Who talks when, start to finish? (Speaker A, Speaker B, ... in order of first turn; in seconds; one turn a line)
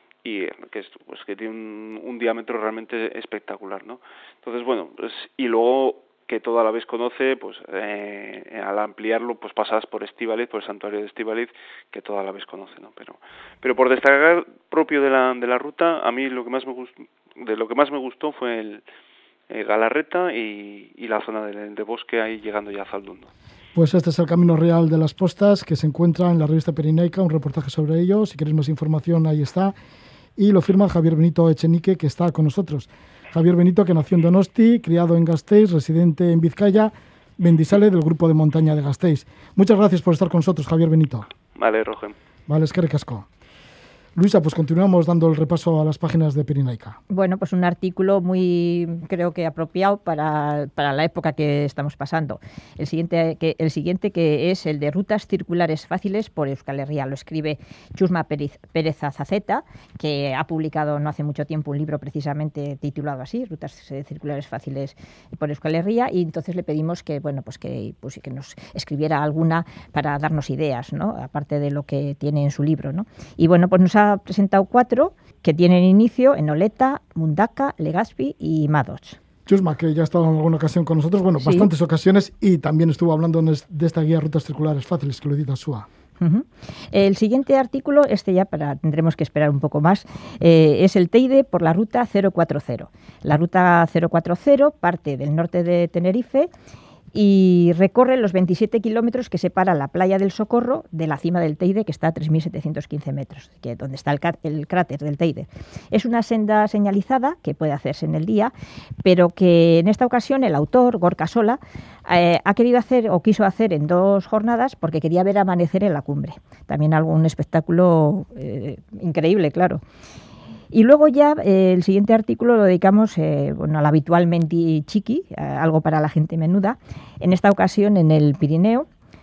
Speaker A: 0.2-18.8
Speaker A: 19.5-23.3
Speaker B: 23.8-29.8
Speaker B: 30.4-41.3
Speaker A: 41.5-42.2
Speaker B: 42.5-43.2
Speaker B: 44.2-47.0
Speaker C: 47.1-79.2
Speaker B: 79.5-85.9
Speaker C: 81.4-81.7
Speaker C: 86.2-96.5
Speaker C: 97.1-108.5
Speaker C: 109.0-119.8
Speaker C: 120.7-128.9